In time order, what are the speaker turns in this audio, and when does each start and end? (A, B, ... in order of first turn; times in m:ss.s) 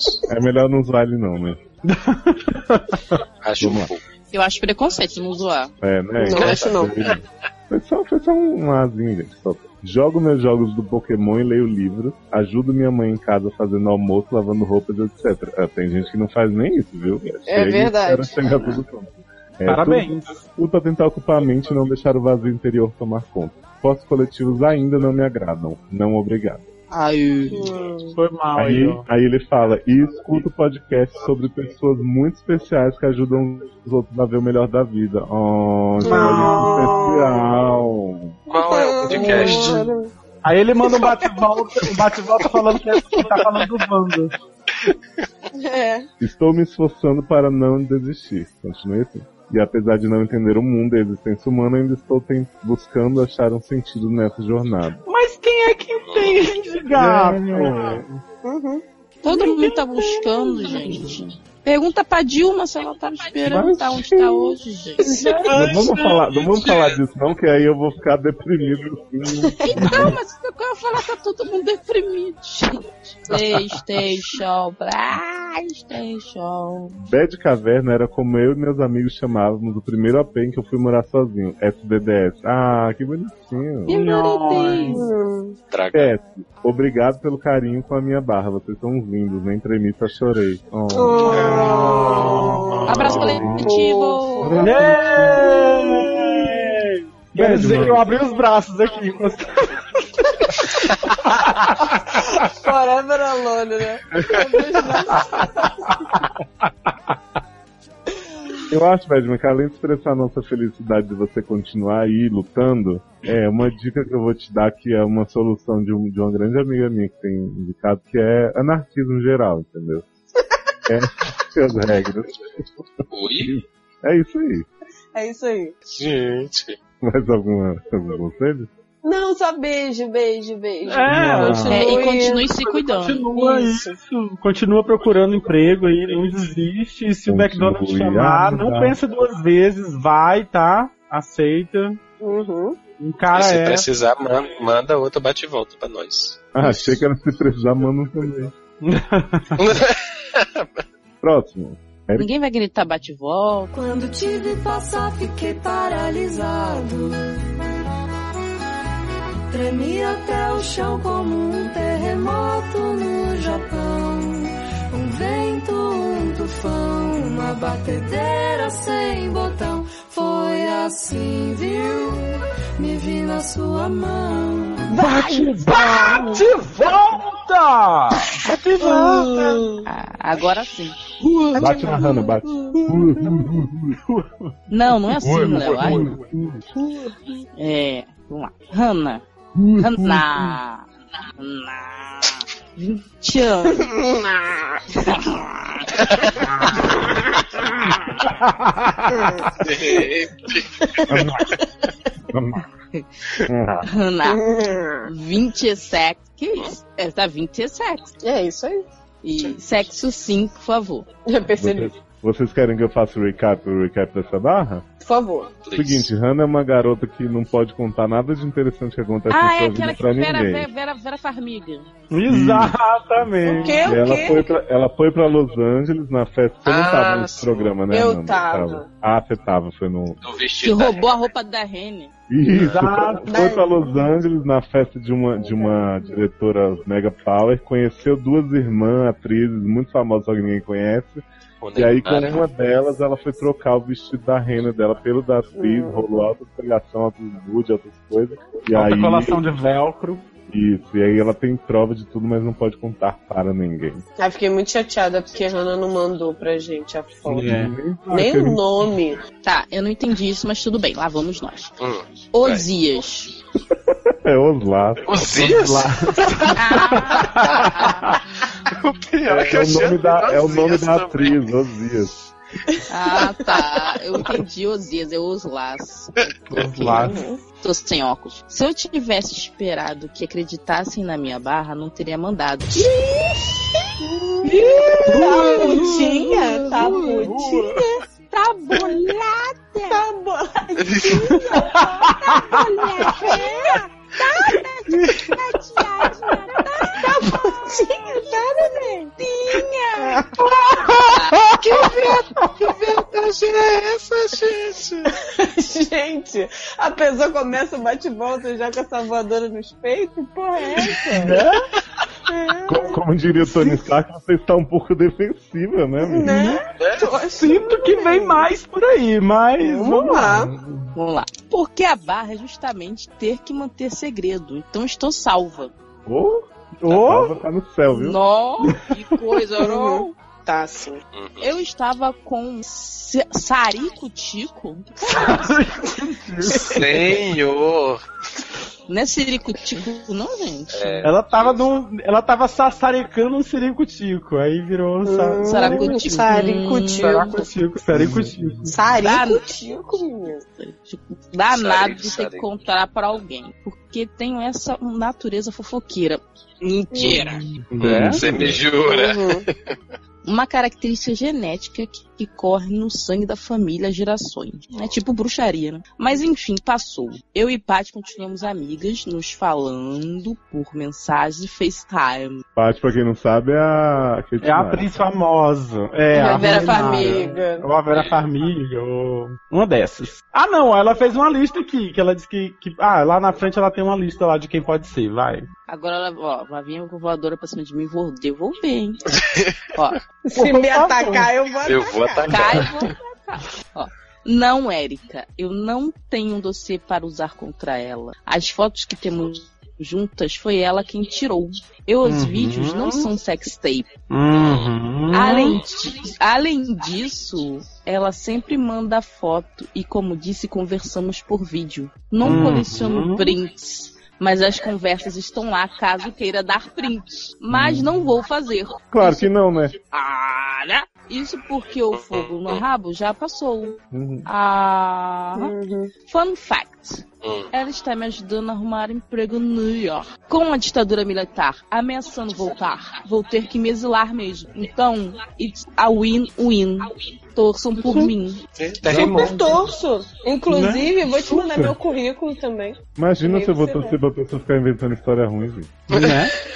0:00.3-0:01.6 A
0:01.9-0:03.2 B
0:03.4-0:04.0 C
0:03.6-0:03.9 A
0:04.3-0:05.7 D
0:05.8-0:26.6 A
0:06.2-0:07.1 E
0:06.4-0:07.1 C
0:17.5-0:18.8 E
0:19.6-0:20.4 B
0:26.9-0:27.6 D
0:27.5-0:28.2 E
0:28.1-0:29.0 B
0:28.5-0:38.4 A
0:36.0-0:37.0 B
0:36.0-0:37.5 E
0:38.5-0:39.9 C
0:38.5-0:40.1 E
0:40.4-0:44.3 B
0:45.5-0:46.1 E
0:46.2-0:55.0 A
0:55.1-0:58.2 B
0:56.0-0:56.4 C
0:56.9-0:58.0 A
0:58.4-0:58.8 E
0:59.2-1:05.2 D
1:03.4-1:04.6 A
1:05.0-1:05.8 E
1:05.1-1:06.1 B
1:05.5-1:10.1 A
1:06.4-1:07.0 C
1:09.6-1:17.0 D
1:09.7-1:10.0 E
1:17.0-1:23.9 A
1:23.9-1:25.0 D
1:23.9-1:25.0 B
1:24.9-1:25.6 E
1:25.7-1:26.1 C
1:25.9-1:31.4 A
1:30.9-1:36.5 E
1:31.3-1:33.5 B
1:32.8-1:34.6 D
1:32.9-1:33.8 A
1:34.4-1:35.5 A
1:34.6-1:39.7 B
1:37.3-1:38.1 A
1:42.2-1:46.0 E
1:48.7-2:00.0 A
2:00.9-2:02.8 A
2:03.1-2:03.5 C
2:03.4-2:04.7 A
2:05.1-2:05.8 E
2:05.9-2:06.8 C
2:07.0-2:08.7 A
2:09.0-2:12.5 E
2:10.8-2:12.1 B
2:11.1-2:11.7 A
2:11.7-2:13.3 D
2:12.7-2:22.0 B
2:13.4-2:13.9 E
2:17.3-2:19.0 A
2:22.2-2:22.8 E
2:23.0-2:23.8 B
2:23.3-2:26.4 C
2:26.5-2:28.5 A
2:26.6-2:26.9 E
2:28.8-2:29.6 B
2:29.6-2:30.7 C
2:31.2-2:32.3 A
2:32.2-2:33.7 D
2:33.7-2:37.4 F
2:39.5-2:55.0 F
2:54.9-2:56.4 E
2:55.0-2:59.6 B
2:58.8-2:59.9 E
2:59.8-3:01.0 D
3:01.2-3:02.1 B
3:01.6-3:03.9 A
3:01.8-3:02.3 D
3:02.9-3:04.5 B
3:04.7-3:06.1 D
3:05.2-3:06.7 B
3:07.6-3:09.2 D
3:09.8-3:10.8 D
3:11.4-3:14.0 D
3:13.9-3:14.8 E
3:14.9-3:16.1 D
3:18.2-3:19.3 B
3:19.1-3:20.0 E
3:19.6-3:20.7 C
3:20.8-3:21.6 E
3:21.1-3:21.6 A
3:22.3-3:22.6 A
3:23.5-3:23.9 A
3:23.9-3:24.4 D
3:24.2-3:25.1 E
3:25.0-3:28.1 D
3:28.2-3:28.8 E
3:29.2-3:31.1 D
3:31.3-3:31.9 E
3:31.6-3:34.8 A
3:35.0-3:35.6 E
3:35.6-3:36.1 C
3:35.7-3:40.7 A
3:39.3-3:41.9 D
3:42.1-3:43.8 B
3:42.3-3:43.3 A
3:43.4-3:44.5 E
3:43.8-3:50.2 A
3:46.6-3:47.7 C
3:47.9-3:48.8 E
3:50.2-3:51.1 C
3:50.6-3:52.1 D
3:52.3-4:01.2 A
3:52.5-3:53.3 B
3:53.2-3:54.0 E
4:01.6-4:02.4 C
4:01.7-4:09.5 A
4:05.6-4:06.0 E
4:08.7-4:10.3 B
4:10.5-4:14.0 A
4:14.2-4:17.5 E
4:17.3-4:17.8 B
4:17.3-4:18.6 A
4:18.1-4:19.2 E
4:19.4-4:21.7 D
4:21.8-4:22.6 C
4:22.3-4:23.3 D
4:23.9-4:25.9 A
4:25.0-4:26.5 C
4:25.5-4:28.2 B
4:26.5-4:28.2 D
4:28.7-4:31.5 C
4:29.2-4:32.1 A
4:32.9-4:42.9 D
4:33.1-4:33.6 E
4:36.5-4:37.2 B
4:36.9-4:37.4 E
4:42.7-4:48.0 E
4:44.4-4:47.8 B
4:45.4-4:45.9 D
4:48.3-4:50.0 D
4:49.9-4:55.1 E
4:51.5-4:52.6 B
4:53.2-4:57.0 D
4:56.8-4:59.2 E
4:59.2-5:00.0 D
5:00.0-5:00.2 E
5:00.1-5:02.4 B
5:01.1-5:01.4 D
5:01.8-5:02.2 E
5:03.1-5:05.1 C
5:05.1-5:11.4 E
5:11.1-5:11.6 B
5:12.3-5:13.0 E
5:12.6-5:16.5 A
5:16.0-5:18.5 E
5:16.2-5:16.6 B
5:16.8-5:17.1 C
5:17.3-5:20.9 B
5:19.6-5:20.5 E
5:21.0-5:25.7 D
5:26.0-5:28.2 A
5:26.9-5:27.4 B
5:27.9-5:30.1 D
5:29.6-5:31.0 E
5:31.1-5:31.5 C
5:31.4-5:35.3 D
5:35.0-5:37.0 B
5:36.6-5:38.0 C
5:38.9-5:40.9 D
5:40.7-5:41.6 C
5:41.0-5:46.2 B
5:45.0-5:47.5 E
5:45.4-5:47.3 D
5:47.0-5:48.7 B
5:47.9-5:48.6 A
5:48.7-5:50.4 E
5:49.0-5:49.4 D
5:50.6-5:57.5 D
5:51.5-5:52.4 C
5:56.9-5:57.2 E
5:57.5-5:58.5 B
5:57.8-5:58.6 A
5:58.0-5:59.7 C
5:58.8-5:59.4 E
6:00.2-6:12.4 D
6:12.6-6:14.9 A
6:14.4-6:25.5 B
6:16.1-6:17.3 D
6:16.1-6:17.7 E
6:17.9-6:18.2 C
6:25.7-6:29.1 D
6:29.7-6:30.0 D
6:30.2-6:32.6 E
6:30.3-6:31.3 B
6:31.6-6:32.7 C
6:32.3-6:43.9 D
6:42.0-6:43.1 B
6:44.1-6:45.6 B
6:44.4-6:44.7 C
6:45.1-6:59.3 D
6:52.2-6:53.4 B
6:57.5-6:58.0 A
6:58.9-6:59.7 A
6:59.9-7:05.5 D
7:01.9-7:02.6 C
7:03.9-7:04.3 A
7:05.4-7:05.9 E
7:06.0-7:18.4 D
7:07.2-7:07.5 C
7:18.6-7:19.5 C
7:18.9-7:24.0 E
7:20.5-7:21.7 B
7:23.0-7:25.8 A
7:25.9-7:26.3 B
7:25.9-7:26.2 C